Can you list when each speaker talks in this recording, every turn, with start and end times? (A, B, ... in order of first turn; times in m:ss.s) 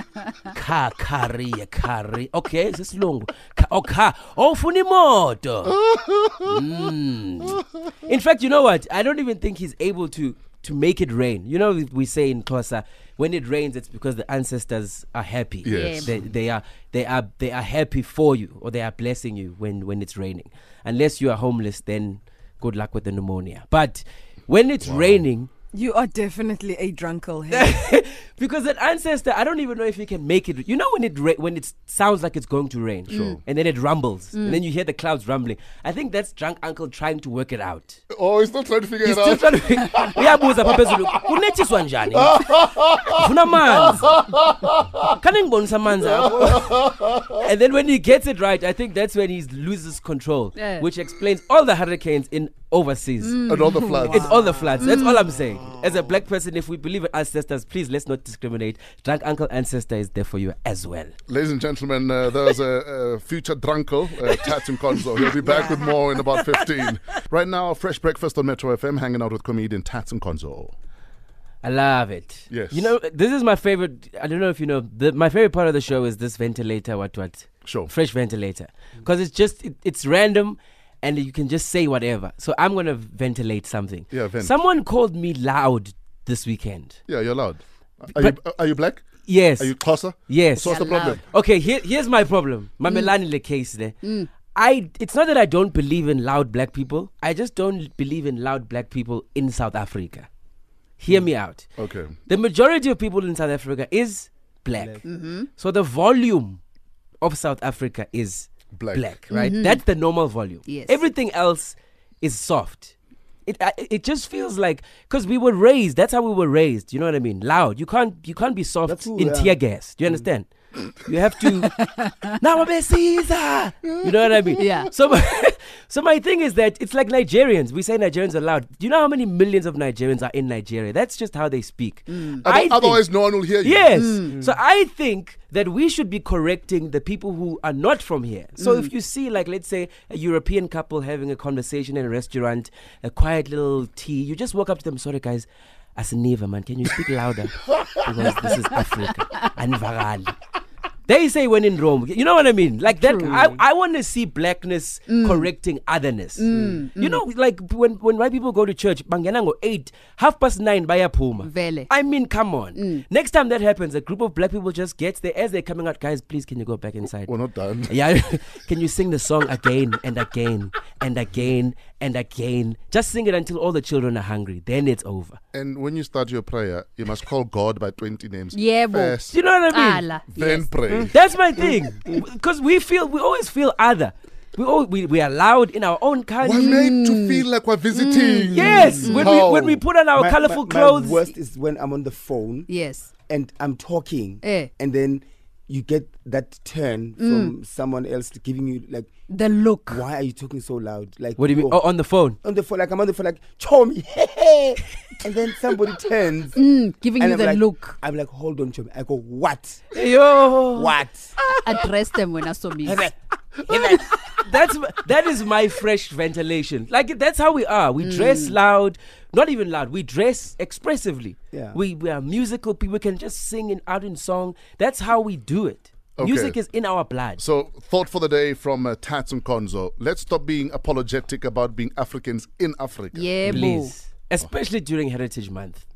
0:00.4-0:05.8 A
0:05.7-0:06.7 B
0:06.4-0:25.5 A
0:15.6-0:16.1 B
0:15.7-0:16.1 C
0:24.8-0:25.3 B
0:25.7-0:27.8 D
0:27.5-0:38.0 A
0:33.1-0:33.4 B
0:33.1-0:33.4 C
0:34.3-0:34.6 C
0:38.1-0:41.4 B
0:39.0-0:44.2 A
0:42.1-0:45.0 B
0:45.1-0:53.5 A
0:46.0-0:47.4 B
0:50.6-0:50.8 C
0:53.2-0:54.2 C
0:53.5-0:54.6 B
0:54.0-1:01.1 A
0:54.8-0:55.3 C
1:01.3-1:10.7 B
1:04.3-1:06.8 A
1:11.6-1:27.0 A
1:12.5-1:12.9 B
1:17.6-1:17.9 B
1:24.1-1:24.5 B
1:27.1-1:29.0 B
1:29.2-1:29.8 A
1:29.6-1:31.2 B
1:30.3-1:40.3 A
1:30.6-1:31.2 C
1:34.0-1:34.3 C
1:41.0-1:41.7 A
1:41.8-1:42.2 B
1:42.3-1:45.0 A
1:44.8-1:45.0 E
1:45.0-1:45.5 C
1:45.6-1:46.6 A
1:47.2-1:52.9 A
1:48.7-1:49.1 B
1:49.3-1:49.8 C
1:50.7-1:51.0 C
1:53.5-2:30.4 A
1:58.9-1:59.6 E
2:04.6-2:04.9 C
2:12.1-2:12.4 C
2:12.4-2:14.0 B
2:14.0-2:14.4 C
2:18.6-2:18.9 C
2:31.1-2:47.4 A
2:33.0-2:33.5 C
2:35.1-2:35.5 C
2:36.4-2:37.2 C
2:41.4-2:41.9 C
2:42.8-2:43.0 C
2:47.3-2:47.9 B
2:47.9-2:55.4 A
2:55.5-2:59.4 B
2:58.5-2:59.2 C
2:59.3-3:00.1 A
2:59.7-3:00.7 C
3:00.3-3:01.2 B
3:00.9-3:01.9 E
3:01.1-3:06.8 A
3:06.4-3:09.8 B
3:06.6-3:09.4 C
3:08.5-3:11.2 A
3:10.2-3:12.7 E
3:12.7-3:13.1 C
3:13.3-3:19.1 E
3:14.4-3:14.7 C
3:17.2-3:17.5 C
3:19.3-3:20.0 C
3:19.9-3:21.8 E
3:21.4-3:22.4 A
3:22.4-3:26.6 E
3:26.6-3:28.0 C
3:27.2-3:29.8 E
3:29.9-3:31.0 A
3:30.8-3:31.4 E
3:31.6-3:33.1 C
3:32.8-3:34.3 E
3:34.4-3:47.4 A
3:38.0-3:38.6 C
3:41.5-3:41.8 E
3:46.2-3:46.6 B
3:47.4-3:53.7 B
3:53.1-3:53.9 C
3:53.4-3:55.8 A